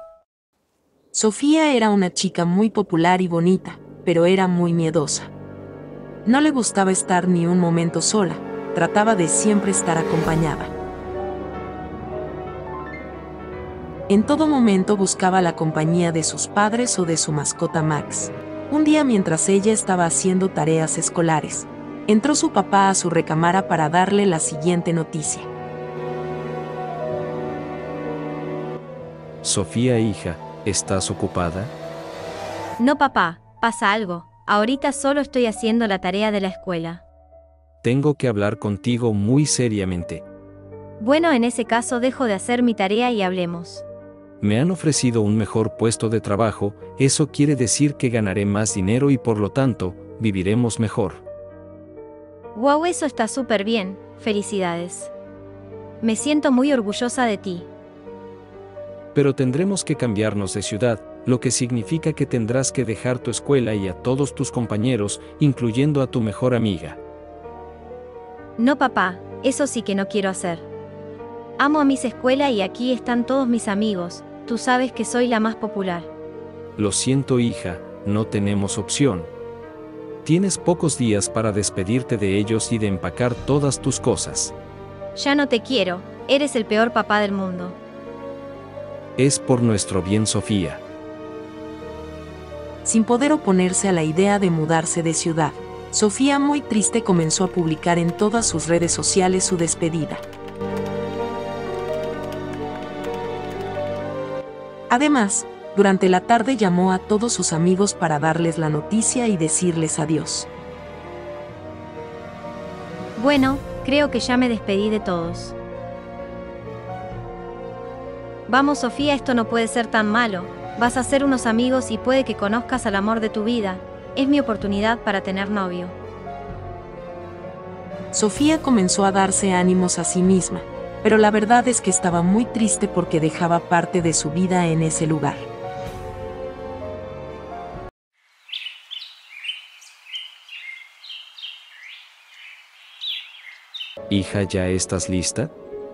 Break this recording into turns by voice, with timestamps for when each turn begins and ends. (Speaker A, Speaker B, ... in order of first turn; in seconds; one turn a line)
Speaker A: 1.1-5.3
Speaker A: 6.2-10.7
Speaker A: 14.1-25.5
Speaker B: 29.4-31.7
Speaker C: 32.8-37.0
Speaker B: 37.8-40.2
Speaker C: 41.0-43.8
Speaker B: 44.4-51.2
Speaker C: 52.5-55.1
Speaker C: 56.0-57.7
Speaker B: 59.1-67.0
Speaker C: 68.6-70.7
Speaker C: 71.6-76.1
Speaker B: 76.8-79.3
Speaker B: 80.2-84.5
Speaker C: 85.1-87.8
Speaker B: 89.2-90.8
Speaker A: 92.8-100.2
Speaker A: 104.9-110.5
Speaker C: 113.2-115.6
Speaker C: 118.5-126.0
Speaker A: 128.1-135.5
Speaker B: 144.1-145.5